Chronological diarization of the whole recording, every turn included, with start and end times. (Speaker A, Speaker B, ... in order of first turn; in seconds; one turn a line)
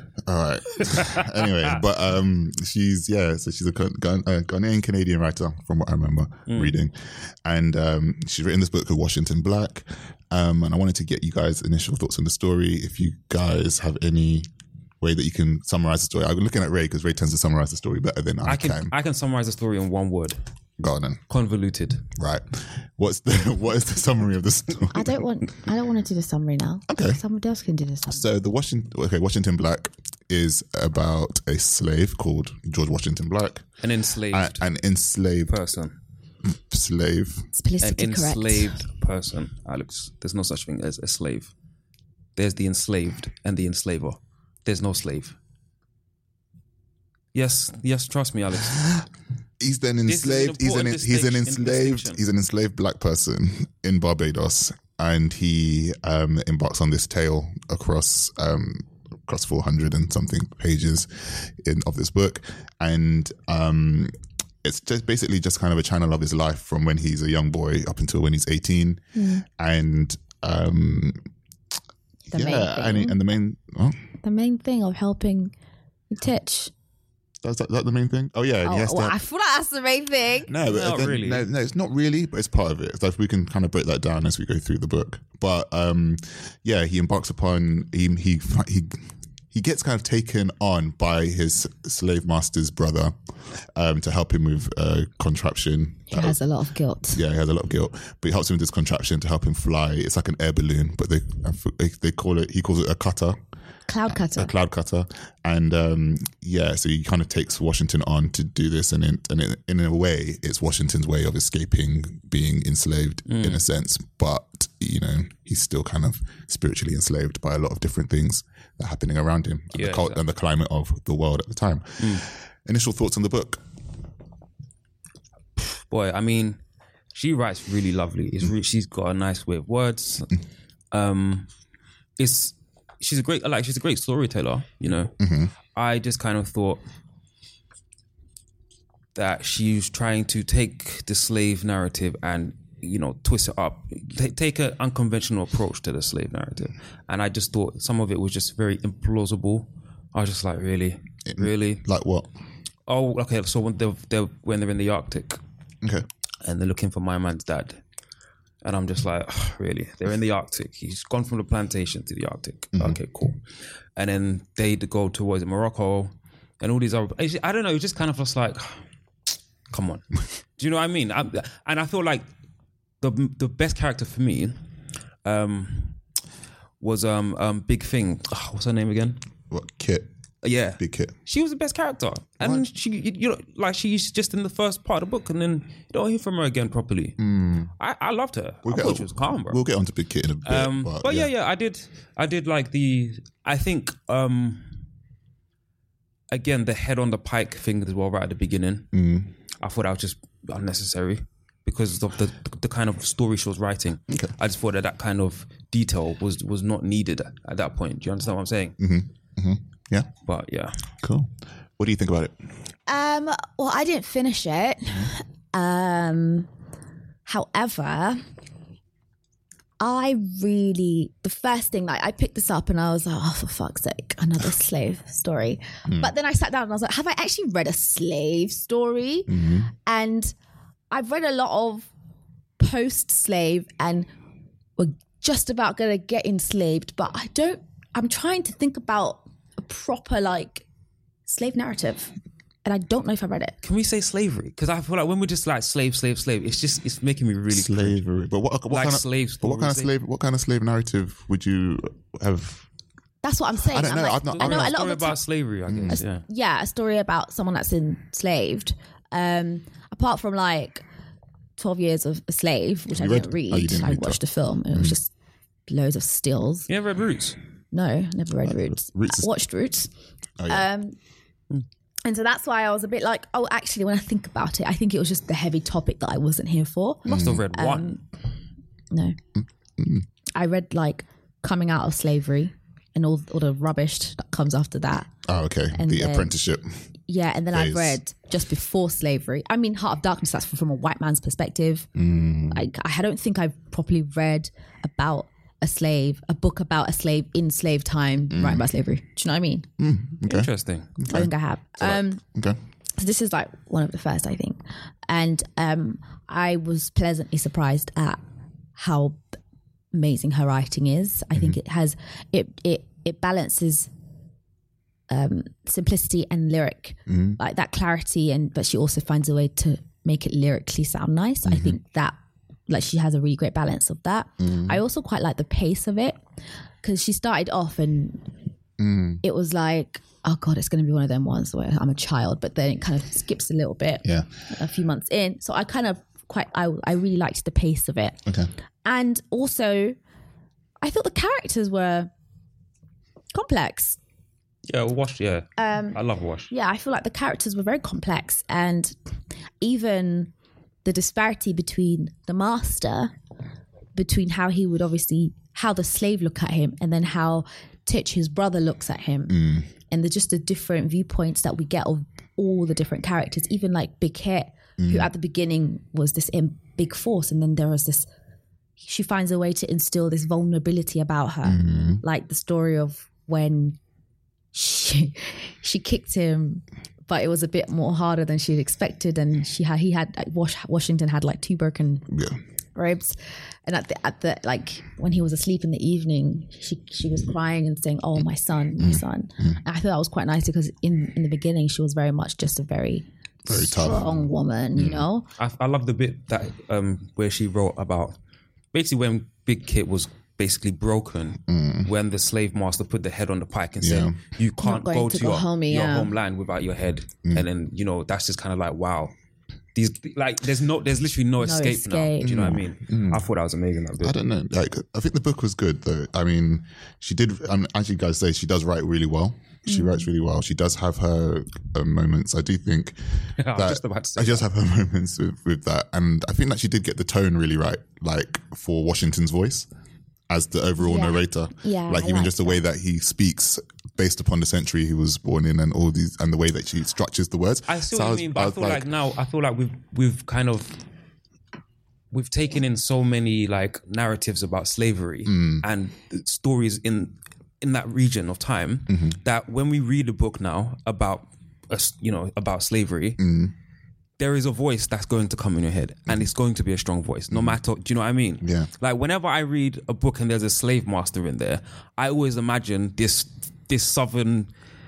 Speaker A: 0.2-14.5
Speaker B: 0.8-1.2
Speaker B: 6.5-6.8
Speaker A: 15.0-18.9
Speaker B: 18.4-20.4
Speaker A: 20.8-21.2
Speaker B: 21.3-22.1
Speaker A: 22.2-25.2
Speaker C: 24.9-28.2
Speaker A: 26.9-27.2
Speaker A: 28.1-33.7
Speaker B: 33.8-34.6
Speaker A: 34.3-35.6
Speaker B: 35.5-36.0
Speaker A: 36.5-37.5
Speaker C: 37.5-38.8
Speaker B: 37.8-41.5
Speaker B: 42.4-45.4
Speaker B: 47.3-48.8
Speaker A: 49.6-71.2
Speaker B: 50.1-52.2
Speaker C: 69.2-69.5
Speaker C: 72.3-73.2
Speaker A: 72.3-74.0
Speaker C: 74.2-75.5
Speaker C: 76.1-76.7
Speaker A: 77.4-79.2
Speaker C: 78.6-80.5
Speaker A: 80.5-96.4
Speaker B: 80.7-81.5
Speaker C: 96.1-97.2
Speaker A: 97.1-103.4
Speaker C: 103.9-104.5
Speaker A: 104.1-123.6
Speaker B: 113.3-113.6
Speaker B: 119.8-120.2
Speaker B: 122.0-122.2
Speaker B: 125.6-126.6
Speaker B: 127.1-130.4
Speaker B: 130.9-131.5
Speaker B: 132.2-135.2
Speaker A: 135.2-135.5
Speaker B: 135.7-136.8
Speaker B: 139.2-151.8
Speaker A: 151.3-152.3
Speaker B: 152.9-155.4
Speaker B: 156.4-157.8
Speaker B: 158.6-163.4
Speaker A: 162.7-163.0
Speaker B: 164.0-168.8
Speaker B: 169.7-172.2
Speaker B: 173.0-174.6
Speaker B: 175.2-176.0
Speaker B: 176.8-179.2
Speaker A: 179.5-180.1
Speaker B: 180.4-187.2
Speaker A: 180.8-181.2
Speaker A: 182.4-182.7
Speaker A: 187.2-187.7
Speaker B: 187.8-189.6
Speaker A: 188.7-191.3
Speaker B: 190.4-194.8
Speaker B: 196.3-198.9
Speaker A: 198.9-199.3
Speaker B: 199.6-208.8
Speaker A: 208.8-210.1
Speaker B: 210.3-210.8
Speaker A: 211.0-212.3
Speaker C: 212.9-216.5
Speaker C: 217.3-218.2
Speaker C: 219.8-230.3
Speaker A: 225.9-226.1
Speaker A: 229.3-229.7
Speaker C: 230.9-231.9
Speaker C: 232.6-234.1
Speaker C: 234.8-240.7
Speaker C: 241.3-242.1
Speaker C: 242.7-243.6
Speaker B: 243.6-248.0
Speaker A: 247.5-252.7
Speaker B: 248.7-249.9
Speaker C: 253.2-255.2
Speaker A: 253.6-254.8
Speaker B: 254.4-256.2
Speaker A: 255.7-256.0
Speaker C: 255.9-260.8
Speaker C: 261.6-265.1
Speaker A: 262.9-264.2
Speaker C: 265.7-266.7
Speaker B: 266.7-267.4
Speaker C: 267.7-269.9
Speaker A: 268.5-269.3
Speaker A: 270.4-270.7
Speaker C: 270.5-271.0
Speaker C: 272.1-278.0
Speaker A: 277.1-277.5
Speaker B: 277.1-278.0
Speaker C: 278.9-279.2
Speaker A: 279.4-280.1
Speaker C: 280.3-285.1
Speaker A: 285.3-286.7
Speaker C: 285.7-286.3
Speaker C: 287.1-291.9
Speaker A: 287.5-288.0
Speaker A: 292.0-292.7
Speaker C: 292.5-299.7
Speaker A: 298.3-298.7
Speaker A: 299.8-302.6
Speaker B: 300.3-300.9
Speaker C: 301.1-302.2
Speaker C: 303.0-308.2
Speaker C: 308.8-309.2
Speaker C: 309.9-313.9
Speaker A: 311.3-311.6
Speaker C: 315.1-322.1
Speaker A: 317.1-317.4
Speaker A: 321.5-321.8
Speaker C: 322.7-326.2
Speaker A: 324.4-324.8
Speaker C: 326.8-328.3
Speaker A: 328.8-329.2
Speaker C: 329.2-338.2
Speaker C: 338.9-340.0
Speaker C: 340.8-342.1
Speaker C: 343.3-344.0
Speaker B: 344.7-346.5
Speaker C: 345.6-346.0
Speaker C: 346.5-348.9
Speaker C: 349.6-350.3
Speaker C: 350.8-353.1
Speaker C: 353.9-368.1
Speaker A: 359.3-359.7
Speaker A: 364.8-365.1
Speaker C: 368.8-373.8
Speaker A: 371.4-372.0
Speaker C: 374.5-382.1
Speaker A: 382.1-382.4
Speaker C: 382.8-395.3
Speaker A: 388.8-389.6
Speaker A: 393.4-395.1
Speaker B: 395.4-398.2
Speaker B: 398.7-409.1
Speaker A: 401.5-401.9
Speaker A: 403.8-404.2
Speaker C: 404.6-406.1
Speaker B: 409.8-414.2
Speaker C: 411.4-412.4
Speaker A: 412.2-413.2
Speaker A: 414.0-423.0
Speaker C: 419.7-420.1
Speaker B: 423.4-424.5
Speaker A: 423.5-429.7
Speaker A: 430.3-438.9
Speaker C: 430.8-432.6
Speaker B: 437.7-440.8
Speaker B: 442.1-453.2
Speaker A: 445.3-445.7
Speaker A: 448.9-449.2
Speaker A: 453.2-453.5
Speaker B: 454.2-464.5
Speaker A: 457.3-457.6
Speaker A: 458.4-458.7